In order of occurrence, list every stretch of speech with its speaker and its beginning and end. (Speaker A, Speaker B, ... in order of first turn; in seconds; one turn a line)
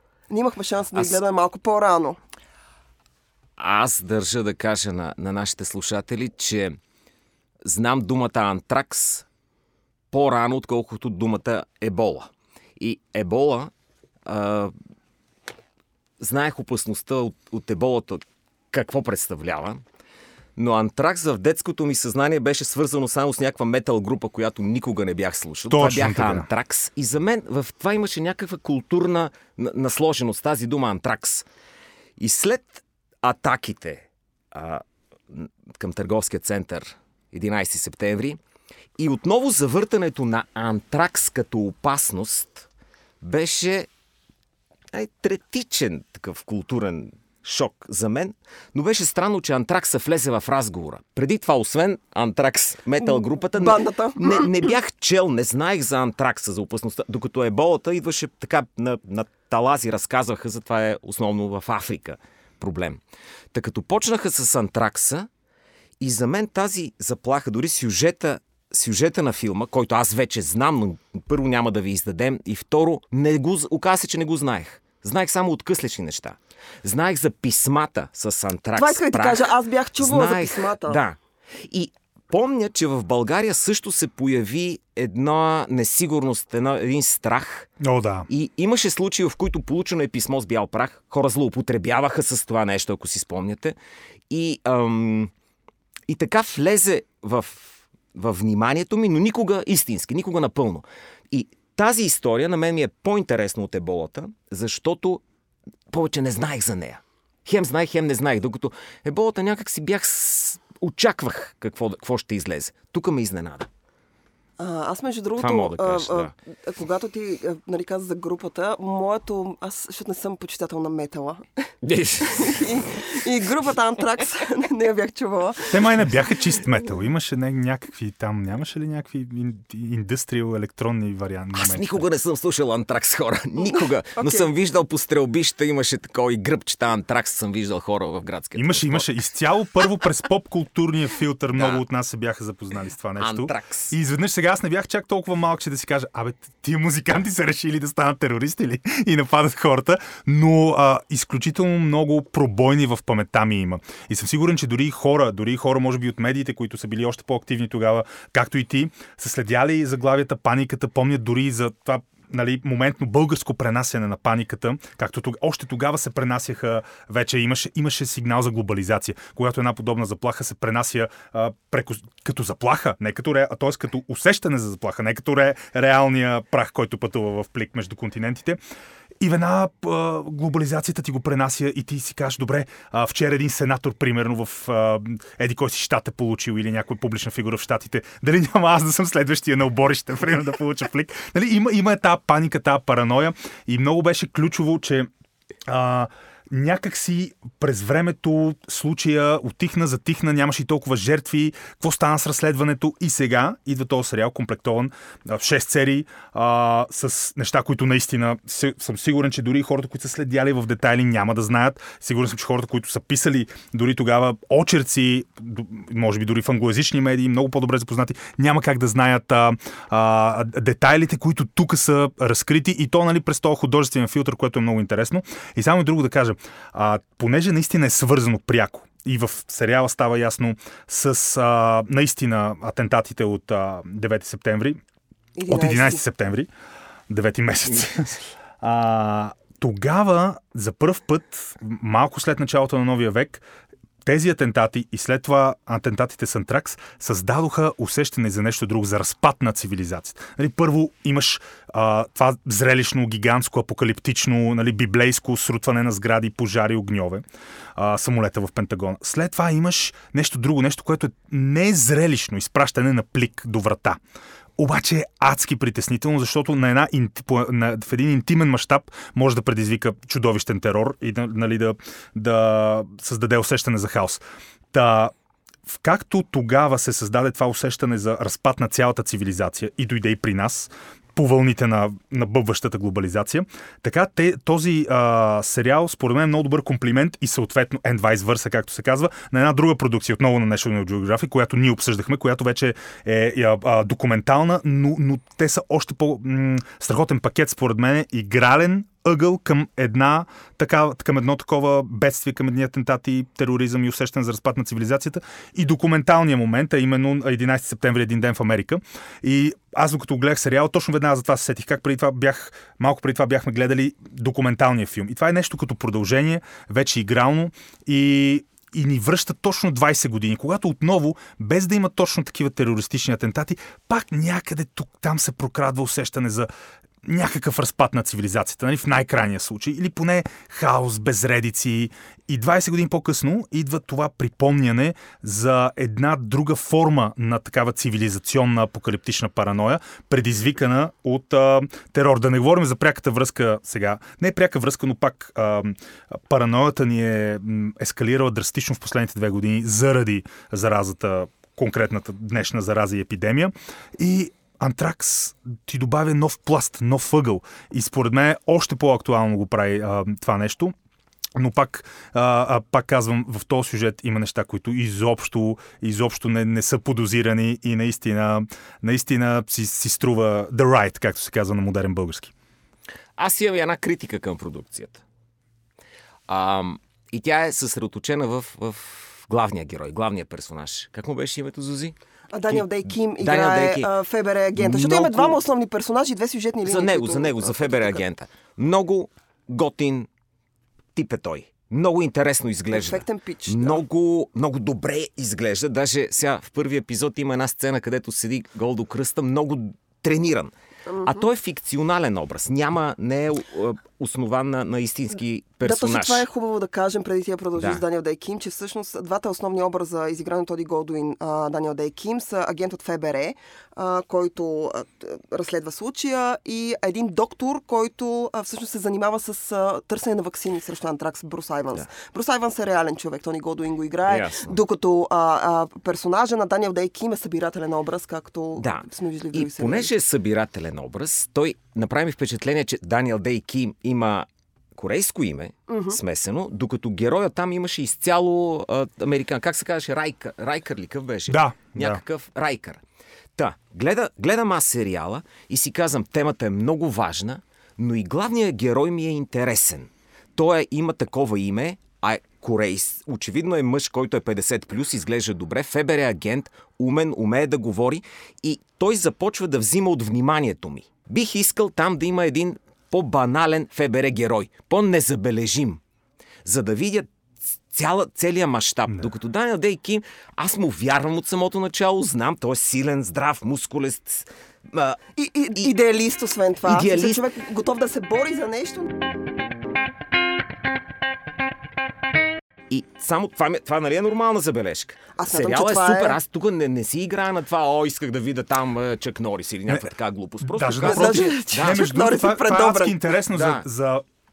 Speaker A: 0.3-2.2
Speaker B: 3.6-6.8
Speaker B: 7.6-9.2
Speaker B: 10.1-13.7
Speaker B: 14.2-14.7
Speaker B: 16.2-19.8
Speaker B: 20.6-31.4
Speaker C: 25.7-26.5
Speaker B: 32.2-38.4
Speaker B: 39.0-42.7
Speaker B: 43.2-43.9
Speaker B: 44.9-63.0
Speaker A: 53.0-54.7
Speaker B: 63.5-65.3
Speaker B: 66.0-87.7
Speaker A: 78.8-81.0
Speaker C: 87.8-88.3
Speaker B: 88.3-93.7
Speaker B: 94.3-95.3
Speaker B: 96.1-105.2
Speaker B: 105.9-113.7
Speaker A: 114.6-121.7
Speaker B: 115.4-116.3
Speaker B: 121.8-122.7
Speaker A: 122.2-125.9
Speaker C: 125.7-132.1
Speaker B: 131.5-139.1
Speaker A: 133.7-134.5
Speaker C: 138.6-178.6
Speaker B: 141.6-141.8
Speaker B: 143.2-143.9
Speaker C: 179.2-195.1
Speaker C: 195.7-234.8
Speaker A: 235.3-236.0
Speaker C: 235.5-236.5
Speaker C: 237.1-243.4
Speaker C: 244.0-257.2
Speaker C: 257.8-264.0
Speaker C: 264.6-274.2
Speaker C: 274.7-275.1
Speaker C: 275.7-326.5
Speaker C: 327.0-360.7
Speaker C: 361.4-372.3
Speaker B: 373.2-375.0
Speaker B: 376.3-382.0
Speaker A: 382.3-388.0
Speaker B: 382.5-383.9
Speaker B: 384.5-385.4
Speaker B: 386.6-390.1
Speaker B: 390.9-400.5
Speaker A: 392.7-393.8
Speaker A: 400.9-401.3
Speaker B: 401.0-406.2
Speaker A: 405.6-429.9
Speaker B: 407.6-407.8
Speaker B: 424.1-424.5
Speaker B: 428.6-442.8
Speaker A: 435.7-436.0
Speaker C: 441.3-442.0
Speaker B: 443.4-465.8
Speaker B: 466.4-467.1
Speaker B: 467.7-475.0
Speaker A: 475.1-478.9
Speaker B: 476.6-477.2
Speaker B: 482.7-491.8
Speaker A: 485.1-486.2
Speaker C: 490.4-494.0
Speaker A: 490.8-493.1
Speaker B: 493.3-493.6